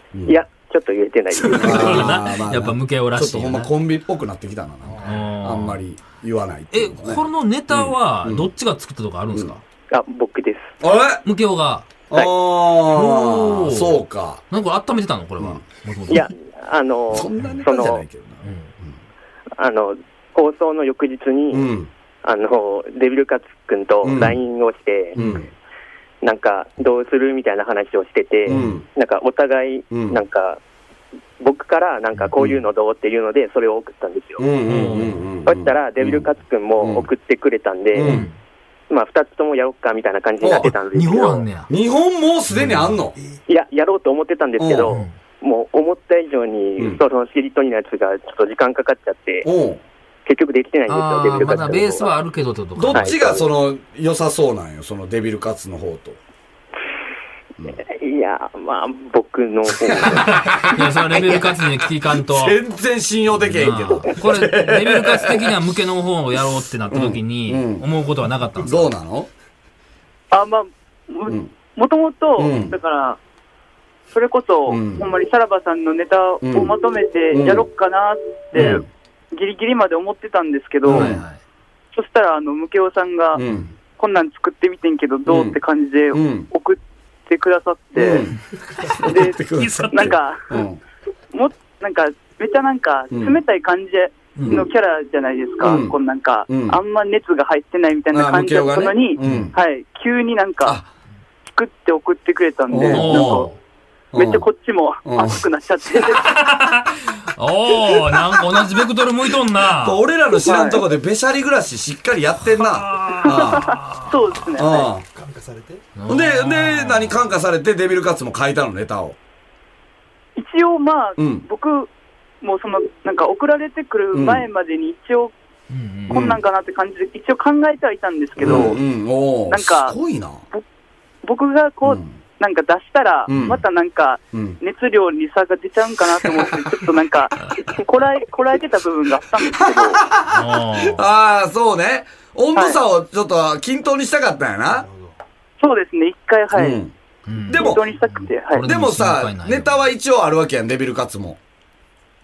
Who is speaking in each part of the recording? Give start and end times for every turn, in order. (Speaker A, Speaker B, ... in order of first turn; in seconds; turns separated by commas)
Speaker A: 0.3-2.2, Speaker B: 1.4-3.7, Speaker C: 1.5-8.5, Speaker D: 4.9-5.3, Speaker B: 5.0-5.8, Speaker B: 6.7-9.6, Speaker A: 9.9-10.8, Speaker C: 10.8-11.2, Speaker B: 11.2-12.0, Speaker C: 12.1-14.4, Speaker B: 12.8-14.0, Speaker B: 14.5-16.3, Speaker A: 16.1-18.1, Speaker C: 17.1-19.0, Speaker B: 18.4-18.7, Speaker A: 19.6-21.7, Speaker C: 21.5-21.9, Speaker A: 22.2-25.2, Speaker C: 24.0-24.4, Speaker C: 25.2-25.5, Speaker A: 26.2-30.6, Speaker C: 28.5-28.9, Speaker B: 28.5-28.7, Speaker C: 29.9-30.2, Speaker A: 31.4-34.5, Speaker C: 34.4-36.3, Speaker B: 34.7-35.2, Speaker A: 35.5-38.2, Speaker C: 36.8-37.1, Speaker C: 38.0-38.3, Speaker B: 38.0-38.4, Speaker A: 38.9-41.5, Speaker C: 40.4-40.7, Speaker B: 40.6-41.7, Speaker C: 41.7-43.2, Speaker B: 42.5-42.9, Speaker D: 43.1-43.4, Speaker A: 43.5-49.5, Speaker C: 44.6-45.0, Speaker B: 44.9-45.2, Speaker C: 49.4-49.8, Speaker A: 50.3-52.1, Speaker B: 50.9-53.2, Speaker C: 51.5-51.8, Speaker C: 52.8-56.2, Speaker A: 52.9-53.4, Speaker A: 57.7-60.7, Speaker C: 60.1-65.6, Speaker B: 60.3-62.6, Speaker B: 63.4-68.9, Speaker C: 66.9-67.9, Speaker C: 68.6-69.3, Speaker E: 70.3-73.2, Speaker C: 72.4-72.8, Speaker E: 74.1-81.1, Speaker C: 74.7-75.1, Speaker C: 76.4-76.7, Speaker C: 77.3-77.7, Speaker C: 78.5-78.9, Speaker C: 80.9-81.2, Speaker B: 80.9-81.4, Speaker E: 81.9-83.4, Speaker C: 83.3-83.7, Speaker E: 84.0-88.3, Speaker C: 85.3-85.6, Speaker C: 86.1-86.5, Speaker C: 88.0-90.8, Speaker E: 89.0-90.6, Speaker E: 91.3-100.8, Speaker C: 93.1-93.4, Speaker B: 94.4-94.7, Speaker C: 94.4-94.7, Speaker C: 95.6-96.0, Speaker C: 96.5-96.8, Speaker C: 98.1-99.6, Speaker B: 99.2-99.5, Speaker E: 101.5-103.5, Speaker C: 102.7-103.5, Speaker B: 102.9-103.5, Speaker C: 104.1-104.5, Speaker E: 104.2-106.3, Speaker C: 105.0-105.4, Speaker B: 106.2-110.0, Speaker C: 109.7-113.9, Speaker E: 110.5-110.8, Speaker B: 112.5-114.4, Speaker E: 113.2-114.9, Speaker C: 114.5-115.0, Speaker D: 115.1-115.9, Speaker B: 116.0-117.3, Speaker C: 116.1-119.2, Speaker E: 120.4-121.9, Speaker C: 121.2-121.5, Speaker E: 122.4-125.3, Speaker C: 124.1-124.5, Speaker B: 125.7-126.3, Speaker E: 126.1-128.8, Speaker C: 126.1-126.4, Speaker C: 128.4-130.4, Speaker E: 129.5-130.0, Speaker E: 131.2-140.0, Speaker C: 131.8-132.1, Speaker C: 133.3-133.6, Speaker B: 133.3-133.6, Speaker C: 134.3-134.6, Speaker C: 139.5-144.9, Speaker B: 140.3-141.1, Speaker E: 142.6-142.8, Speaker D: 144.7-145.2, Speaker E: 145.6-146.8, Speaker C: 146.5-146.9, Speaker B: 147.3-149.9, Speaker C: 147.5-147.8, Speaker E: 147.5-148.7, Speaker C: 148.6-151.4